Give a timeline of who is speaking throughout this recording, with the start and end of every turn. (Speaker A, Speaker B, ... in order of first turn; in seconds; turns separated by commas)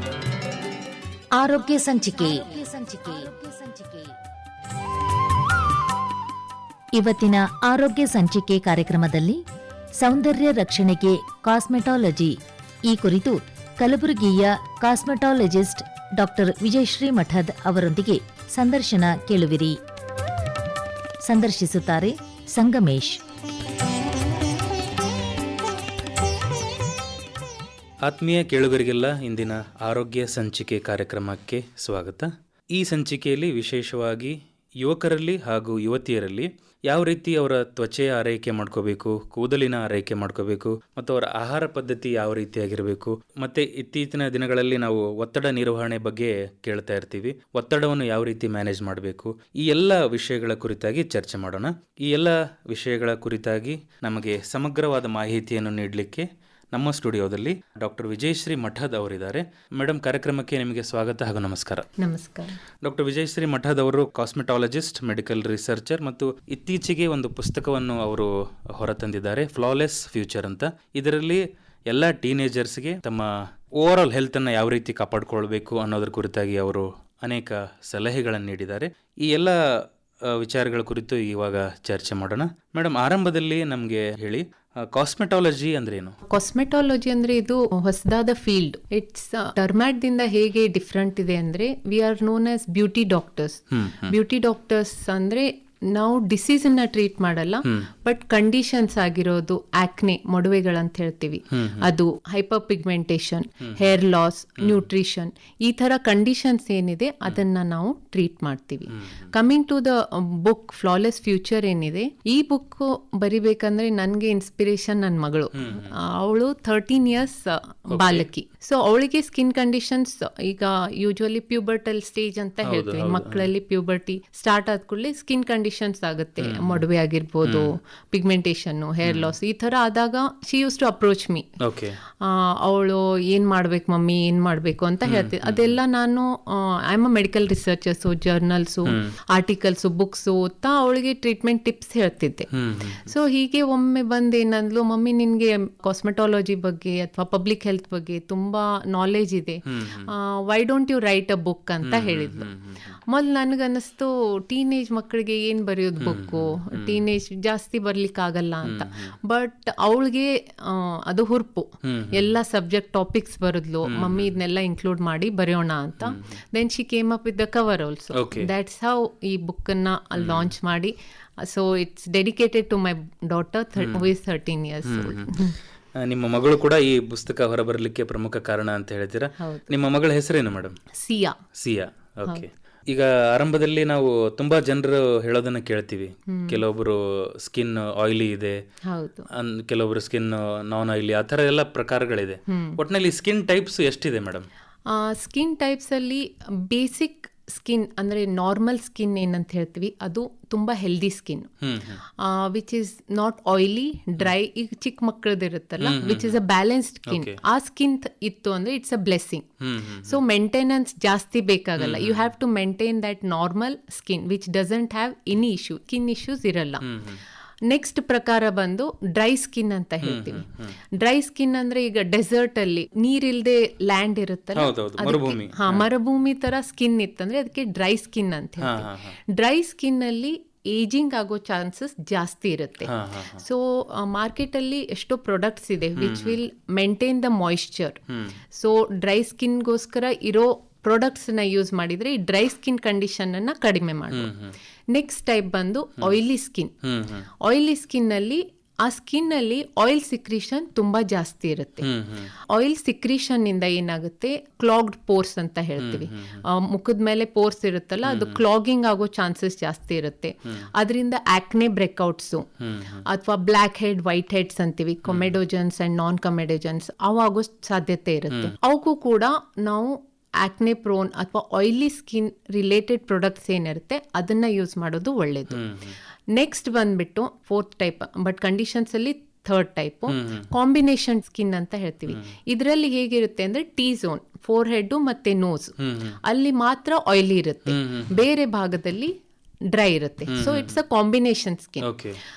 Speaker A: 1.4-4.1, Speaker A: 7.0-9.4, Speaker A: 10.0-19.8, Speaker A: 21.2-23.2, Speaker B: 28.0-61.9, Speaker C: 62.0-62.6, Speaker B: 62.8-86.2, Speaker C: 86.3-131.5, Speaker B: 93.7-94.1, Speaker B: 101.5-101.9, Speaker B: 108.9-109.3, Speaker B: 115.5-115.9, Speaker B: 117.9-118.3, Speaker B: 122.6-123.5, Speaker B: 126.4-126.8, Speaker B: 127.4-127.7, Speaker B: 129.0-129.3, Speaker B: 131.6-132.0, Speaker C: 132.2-142.5, Speaker B: 135.0-135.8, Speaker B: 138.8-139.1, Speaker B: 142.5-143.1, Speaker C: 143.0-152.5, Speaker B: 149.7-150.1, Speaker B: 151.8-153.0, Speaker C: 153.1-175.6, Speaker B: 156.0-157.0, Speaker B: 158.7-159.1, Speaker B: 161.8-162.3, Speaker B: 163.9-164.3, Speaker B: 166.0-166.3, Speaker B: 168.1-168.5, Speaker B: 170.2-170.5, Speaker B: 173.8-174.1, Speaker B: 174.8-175.4, Speaker B: 176.0-180.8, Speaker C: 179.4-179.7, Speaker C: 180.9-181.4, Speaker B: 181.5-188.6, Speaker C: 186.3-186.6, Speaker C: 188.9-189.3, Speaker B: 189.3-194.5, Speaker C: 192.5-192.8, Speaker C: 194.9-201.5, Speaker B: 201.6-202.0, Speaker C: 202.1-216.8, Speaker B: 205.8-206.3, Speaker B: 207.1-207.4, Speaker B: 209.6-210.2, Speaker B: 211.8-212.3, Speaker B: 216.8-217.2, Speaker C: 217.7-238.0, Speaker B: 220.0-220.7, Speaker B: 224.5-225.8, Speaker B: 228.6-229.2, Speaker B: 232.8-233.4, Speaker B: 236.0-236.4, Speaker B: 238.1-238.4, Speaker C: 238.5-244.3, Speaker B: 244.1-244.5, Speaker C: 244.9-246.8, Speaker B: 246.8-247.3, Speaker C: 247.4-251.9, Speaker B: 251.8-252.3, Speaker C: 252.5-262.5, Speaker B: 255.8-256.4, Speaker B: 258.1-258.4, Speaker B: 262.6-263.0, Speaker C: 263.1-275.6, Speaker B: 265.1-265.4, Speaker B: 275.5-276.0, Speaker C: 276.3-289.1, Speaker B: 280.1-280.5, Speaker B: 285.8-286.2, Speaker B: 287.7-288.2, Speaker C: 289.7-291.9, Speaker B: 290.3-290.8, Speaker B: 291.8-292.2